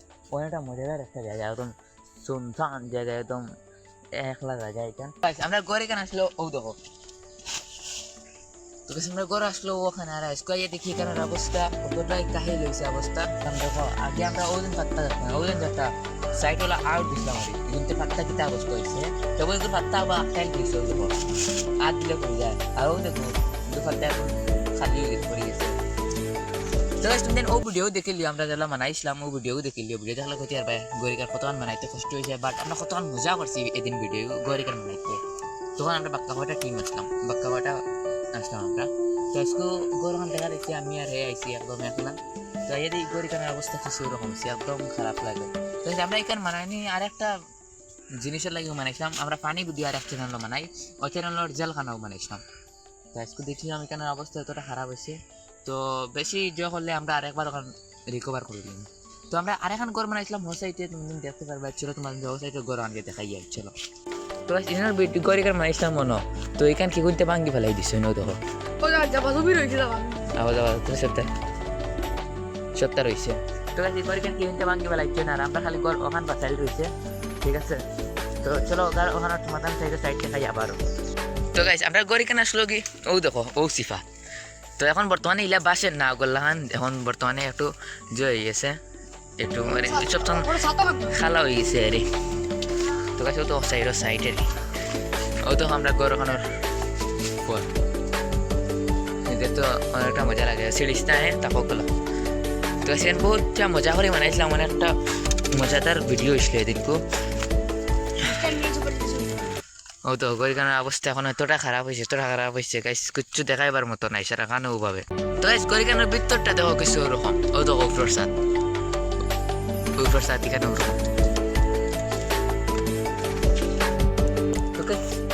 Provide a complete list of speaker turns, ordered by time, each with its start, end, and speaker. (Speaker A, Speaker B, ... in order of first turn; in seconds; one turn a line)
Speaker A: 0.3-3.5
Speaker A: 4.2-6.8
Speaker A: 8.9-21.2
Speaker A: 21.8-25.8
Speaker A: 27.0-35.2
Speaker A: 35.8-47.4
Speaker A: 48.2-52.4
Speaker A: 53.1-63.8
Speaker A: 64.5-68.4
Speaker B: 68.8-70.3
Speaker A: 70.3-71.3
Speaker A: 72.8-76.9
Speaker A: 77.4-77.8
Speaker A: 78.4-80.8
Speaker A: 81.5-84.0
Speaker A: 84.8-88.8
Speaker A: 89.4-92.1
Speaker B: 89.9-91.1
Speaker A: 92.8-94.5
Speaker A: 95.4-96.5
Speaker A: 99.3-101.9
Speaker A: 102.8-105.0
Speaker A: 105.5-107.0
Speaker B: 108.2-109.6
Speaker A: 110.1-118.3
Speaker A: 120.0-121.0
Speaker A: 124.8-125.0